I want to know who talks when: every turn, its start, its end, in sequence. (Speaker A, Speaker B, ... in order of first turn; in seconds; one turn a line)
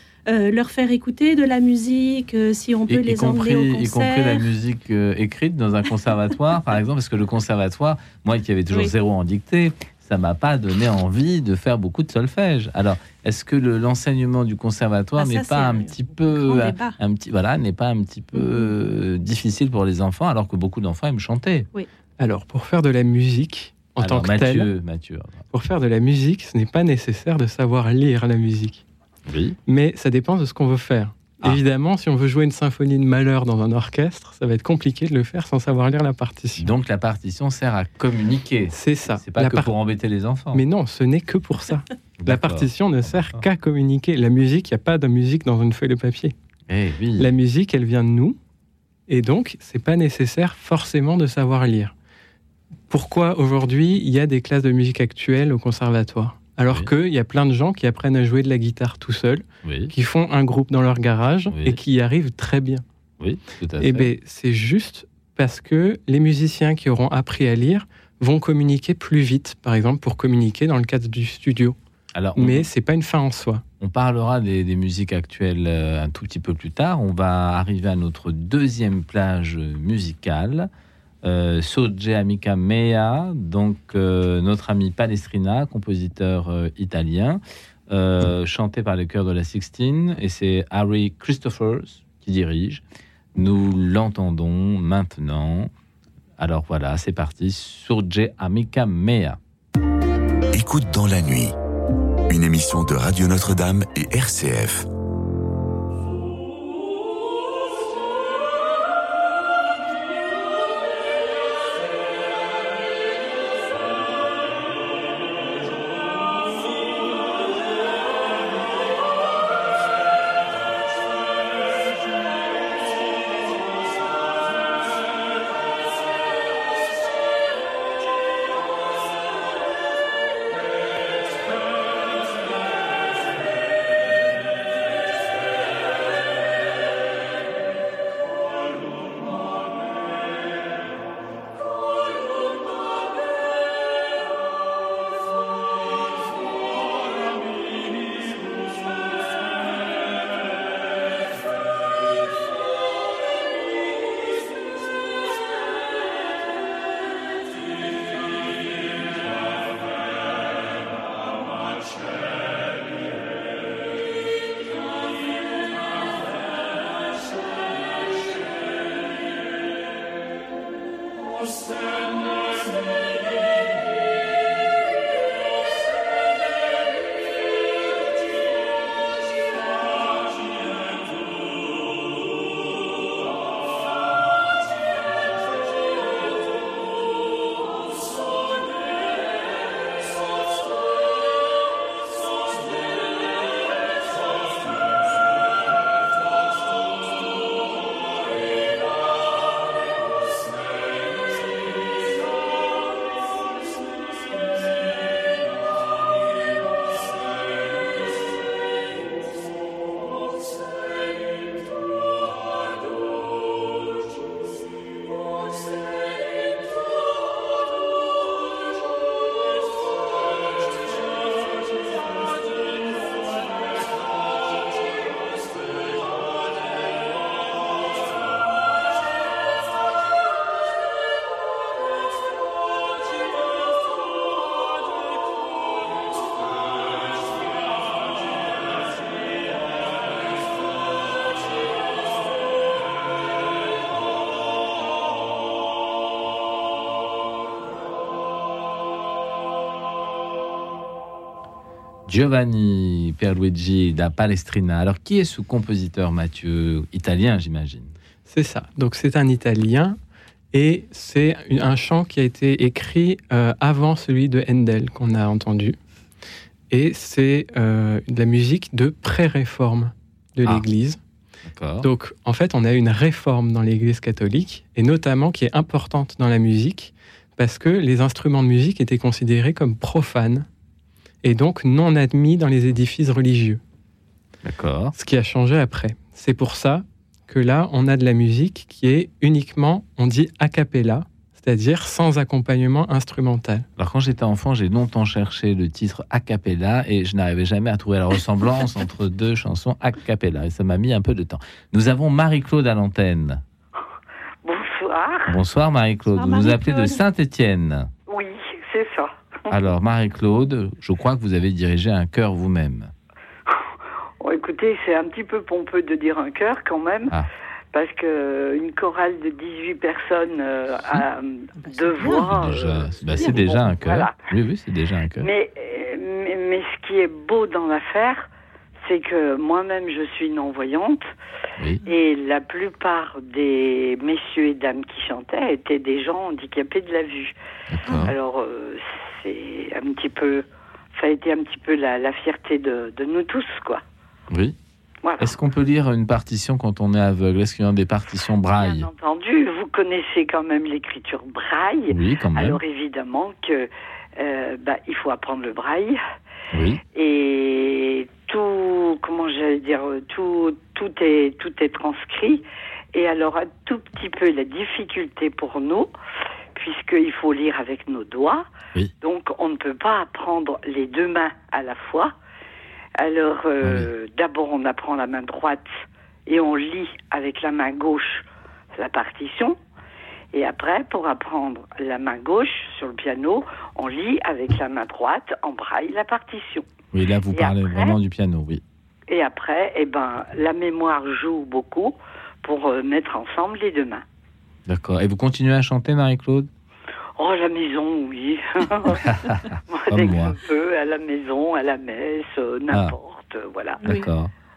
Speaker A: 0.3-4.4
Speaker B: 2.9-21.7
Speaker A: 15.2-17.0
Speaker A: 18.4-18.7
Speaker C: 22.2-24.7
Speaker B: 24.0-25.4
Speaker C: 25.5-28.8
Speaker B: 29.3-29.6
Speaker C: 29.7-36.7
Speaker B: 36.6-40.6
Speaker C: 38.7-39.7
Speaker C: 40.5-46.3
Speaker B: 42.2-43.4
Speaker B: 46.7-47.3
Speaker C: 47.2-48.4
Speaker C: 49.1-51.9
Speaker C: 52.9-62.8
Speaker B: 59.6-59.9
Speaker B: 61.5-61.8
Speaker B: 63.2-64.1
Speaker C: 63.8-71.8
Speaker B: 72.2-72.7
Speaker C: 72.3-73.6
Speaker B: 73.8-80.7
Speaker B: 81.2-92.8
Speaker B: 93.3-95.7
Speaker B: 96.4-99.4
Speaker D: 100.5-101.5
Speaker D: 102.3-104.8
Speaker B: 252.1-257.9
Speaker C: 258.2-260.0
Speaker C: 260.5-265.8
Speaker C: 266.7-271.0
Speaker B: 271.5-271.9
Speaker C: 271.8-280.4
Speaker C: 281.2-283.6
Speaker B: 284.4-284.9
Speaker C: 284.9-293.6
Speaker B: 293.8-303.4
Speaker E: 304.4-305.4
Speaker B: 305.3-307.9
Speaker A: 306.1-307.0
Speaker E: 308.1-309.5
Speaker B: 309.5-312.9
Speaker E: 314.2-317.1
Speaker E: 317.7-324.1
Speaker A: 322.0-322.3
Speaker B: 322.0-325.3
Speaker E: 325.2-328.3
Speaker E: 328.8-331.1
Speaker E: 331.8-337.3
Speaker B: 337.7-338.1
Speaker E: 338.0-343.8
Speaker B: 344.3-344.6
Speaker E: 345.0-345.4
Speaker B: 345.2-348.9
Speaker E: 348.5-356.0
Speaker B: 351.9-352.6
Speaker B: 356.5-356.8
Speaker E: 356.9-365.9
Speaker E: 366.5-368.5
Speaker E: 369.0-372.1
Speaker E: 373.0-375.7
Speaker B: 373.6-373.9
Speaker E: 376.3-378.2
Speaker E: 378.8-379.6
Speaker E: 380.3-386.7
Speaker B: 386.9-388.6
Speaker E: 387.3-388.0
Speaker E: 389.1-394.0
Speaker B: 394.7-396.5
Speaker E: 397.2-399.1
Speaker B: 399.0-400.3
Speaker E: 399.7-404.1
Speaker B: 403.8-404.3